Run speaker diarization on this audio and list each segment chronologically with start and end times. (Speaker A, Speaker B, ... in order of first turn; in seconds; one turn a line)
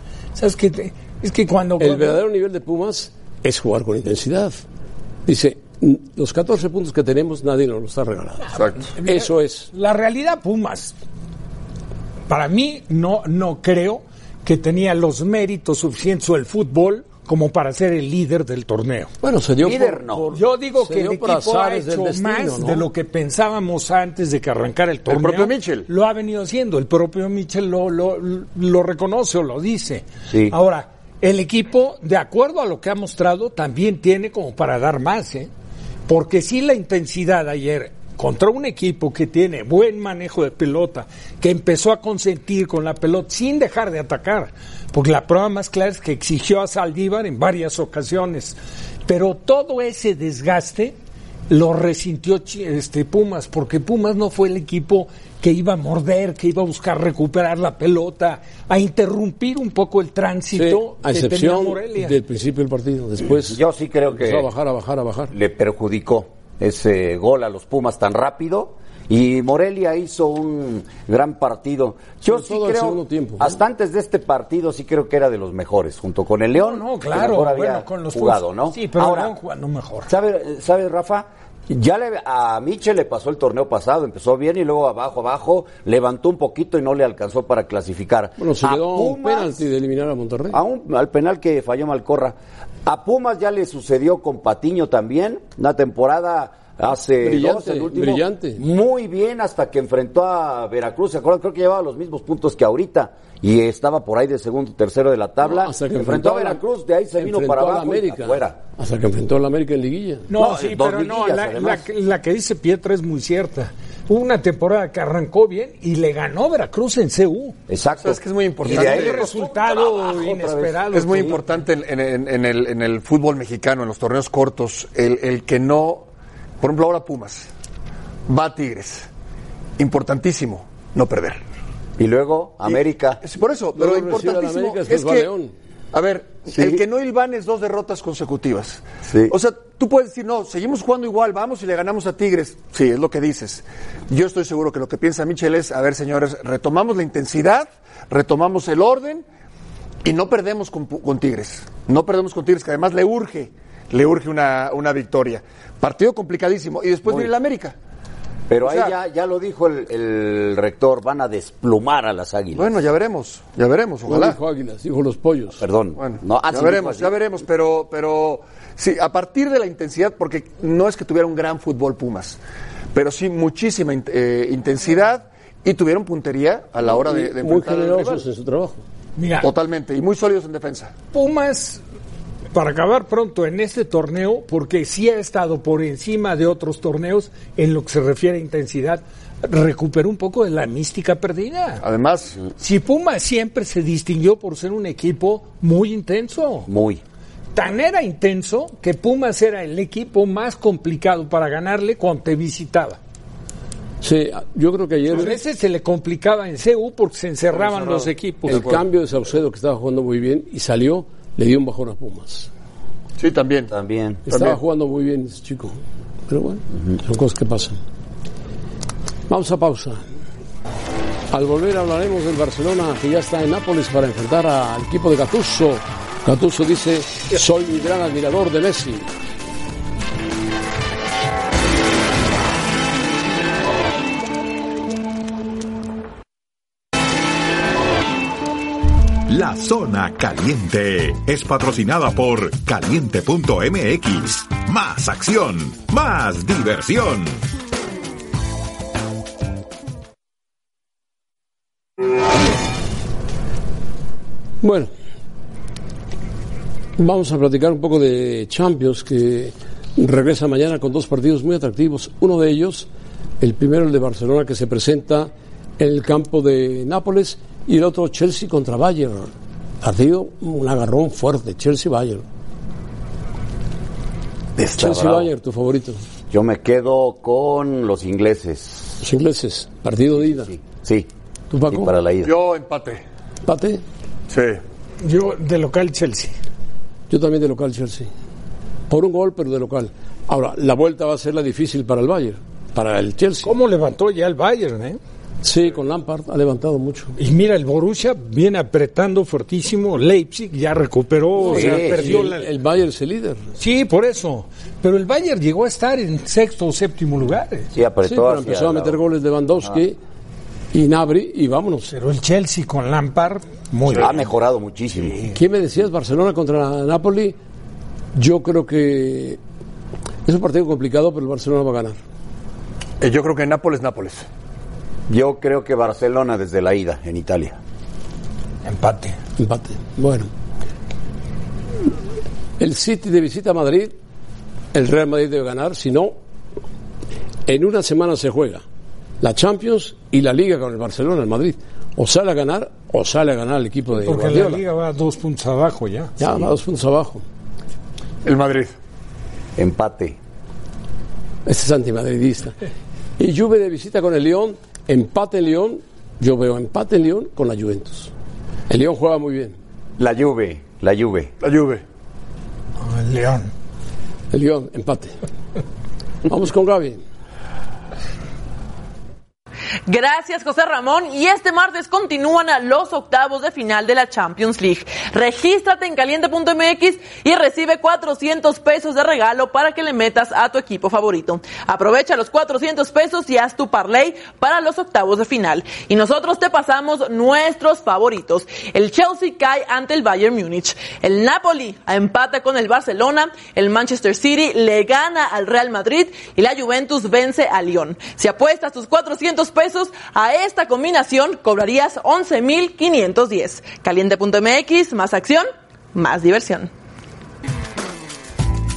Speaker A: 0.3-2.2
Speaker B: 1.8-4.6
Speaker B: 5.3-9.7
Speaker C: 8.6-8.8
Speaker A: 9.0-10.9
Speaker A: 12.3-19.1
Speaker B: 19.2-22.9
Speaker D: 19.6-20.3
Speaker A: 20.3-35.5
Speaker C: 25.1-25.9
Speaker D: 30.3-30.6
Speaker A: 36.1-51.0
Speaker A: 51.5-62.2
Speaker B: 60.5-63.6
Speaker D: 63.5-64.5
Speaker B: 64.2-65.3
Speaker D: 65.3-79.3
Speaker B: 72.3-73.6
Speaker A: 76.5-80.1
Speaker D: 80.1-89.6
Speaker B: 88.4-90.6
Speaker D: 90.5-108.6
Speaker B: 97.2-98.6
Speaker B: 105.4-106.6
Speaker B: 107.2-110.3
Speaker A: 110.3-117.6
Speaker D: 110.3-111.9
Speaker D: 117.7-121.4
Speaker C: 118.0-119.3
Speaker A: 118.6-121.4
Speaker C: 120.9-126.1
Speaker C: 126.6-127.5
Speaker C: 128.3-129.1
Speaker C: 129.8-131.4
Speaker D: 132.0-133.2
Speaker C: 132.7-135.3
Speaker B: 133.7-135.5
Speaker C: 135.9-149.2
Speaker D: 136.5-136.8
Speaker D: 139.1-139.3
Speaker C: 150.0-157.8
Speaker D: 158.5-162.7
Speaker C: 158.6-158.9
Speaker C: 162.6-164.4
Speaker B: 164.1-165.6
Speaker D: 165.6-167.2
Speaker C: 166.0-172.4
Speaker C: 172.9-178.2
Speaker B: 176.9-178.8
Speaker A: 179.2-179.5
Speaker C: 179.4-180.9
Speaker A: 181.1-181.8
Speaker A: 182.5-191.8
Speaker C: 191.8-192.4
Speaker A: 192.6-196.7
Speaker D: 196.7-197.0
Speaker A: 197.6-203.0
Speaker B: 204.0-205.4
Speaker A: 205.1-208.8
Speaker C: 207.6-208.8
Speaker B: 208.5-212.5
Speaker C: 213.2-213.7
Speaker D: 213.7-214.2
Speaker B: 214.3-217.8
Speaker C: 214.3-214.6
Speaker B: 219.3-220.0
Speaker B: 221.3-229.1
Speaker E: 239.3-247.4
Speaker B: 254.6-254.9
Speaker B: 257.0-262.9
Speaker B: 263.4-269.3
Speaker B: 269.8-272.2
Speaker D: 274.6-275.3
Speaker B: 274.6-276.0
Speaker D: 276.3-279.0
Speaker B: 279.0-280.5
Speaker D: 280.3-281.1
Speaker B: 281.5-281.9
Speaker D: 281.7-282.3
Speaker C: 282.2-283.0
Speaker B: 283.5-283.8
Speaker C: 284.3-284.6
Speaker A: 285.0-286.3
Speaker B: 287.1-288.1
Speaker B: 288.9-293.5
Speaker A: 293.4-295.0
Speaker B: 295.4-297.1
Speaker A: 297.2-302.5
Speaker B: 301.4-303.4
Speaker D: 301.5-302.2
Speaker A: 303.6-307.7
Speaker D: 307.7-309.0
Speaker B: 308.0-310.0
Speaker B: 310.7-311.9
Speaker A: 311.9-314.2
Speaker D: 314.0-315.2
Speaker B: 315.4-317.4
Speaker B: 318.1-319.4
Speaker B: 320.3-322.0
Speaker C: 323.0-324.3
Speaker D: 325.1-327.6
Speaker A: 328.6-329.2
Speaker B: 329.4-330.3
Speaker B: 332.6-333.9
Speaker B: 334.7-336.1
Speaker B: 337.5-338.6
Speaker B: 339.2-344.6
Speaker A: 344.0-346.1
Speaker B: 346.2-347.2
Speaker C: 348.2-348.7
Speaker D: 349.6-350.2
Speaker B: 351.5-352.6
Speaker B: 353.2-358.1
Speaker B: 358.7-359.6
Speaker D: 360.0-361.3
Speaker C: 361.4-361.8
Speaker A: 362.8-363.5
Speaker B: 364.3-365.2
Speaker B: 366.3-367.0
Speaker F: 369.9-406.7